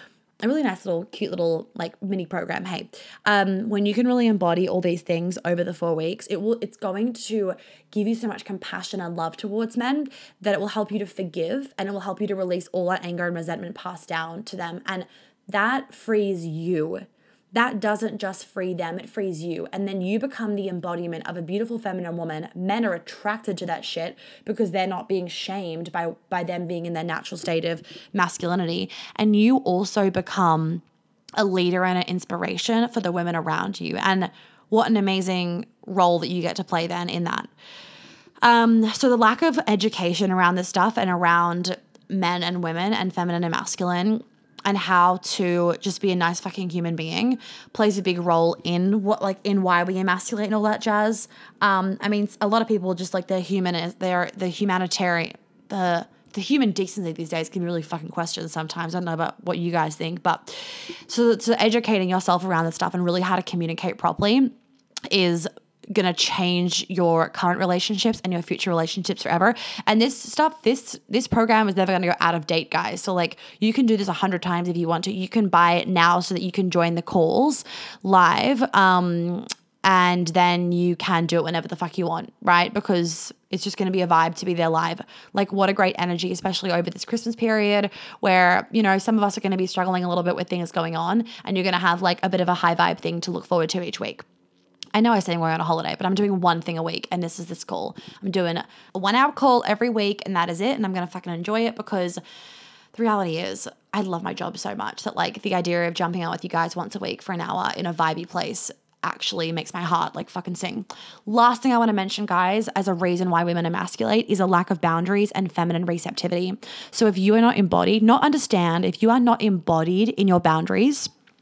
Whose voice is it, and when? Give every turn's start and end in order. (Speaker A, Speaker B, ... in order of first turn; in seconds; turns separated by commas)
Speaker A: 0.4-30.8, Speaker A: 31.4-37.5, Speaker A: 38.4-64.5, Speaker A: 65.1-94.2, Speaker A: 94.9-102.2, Speaker A: 102.9-121.1